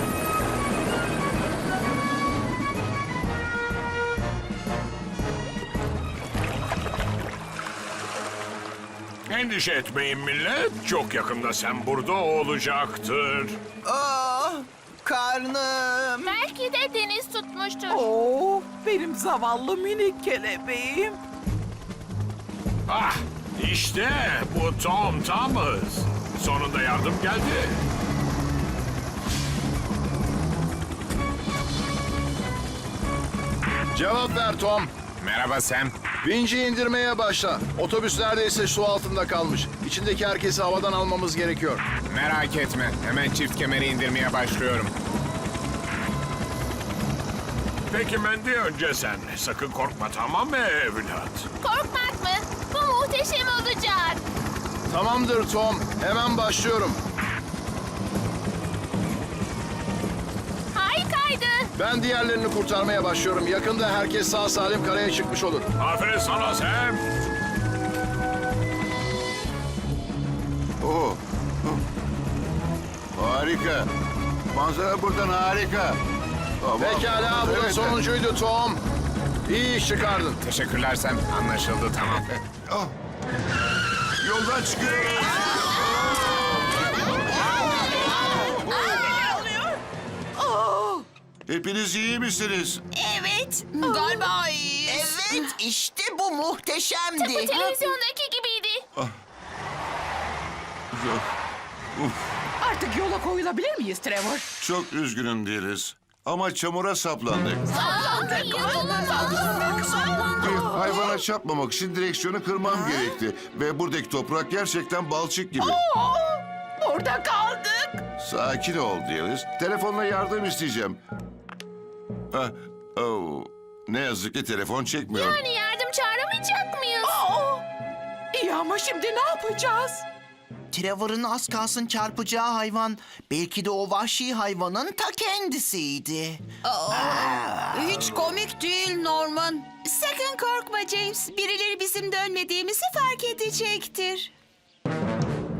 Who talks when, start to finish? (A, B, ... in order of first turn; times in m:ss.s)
0:09.3-0:13.6 A
0:13.8-0:16.4 B
0:16.2-0:18.1 C
0:17.9-0:21.2 D
0:22.9-0:27.8 A
0:33.9-0:35.0 E
0:35.1-0:36.0 F
0:36.2-0:41.9 E
0:42.0-0:44.9 F
0:47.9-0:51.5 A
0:51.6-0:54.2 C
0:54.9-0:57.0 E
1:00.7-1:01.7 C
1:01.8-1:05.7 E
1:05.8-1:07.0 A
1:10.8-1:11.8 G
1:13.2-1:13.9 G
1:14.5-1:16.0 G
1:16.6-1:18.0 G
1:16.8-1:18.8 E
1:19.5-1:20.4 E
1:20.4-1:22.3 F
1:24.2-1:26.3 G
1:25.3-1:26.3 B
1:27.3-1:28.7 B
1:27.4-1:29.5 H
1:30.6-1:30.9 D
1:31.5-1:32.8 G
1:32.9-1:35.5 H
1:34.9-1:37.6 B
1:37.2-1:38.8 C
1:37.5-1:37.8 H
1:40.9-1:41.2 G
1:42.0-1:42.2 G
1:42.6-1:44.5 D
1:44.6-1:47.7 G
1:47.7-1:50.6 H
1:47.8-1:48.9 C
1:47.8-1:49.4 D
1:50.4-1:55.8 G
1:55.8-1:58.0 D
1:58.2-2:01.0 G
2:02.3-2:05.4 G
2:05.1-2:07.1 C
2:07.0-2:07.6 D
2:08.3-2:10.0 D
2:10.7-2:18.2 B
2:16.6-2:24.3 H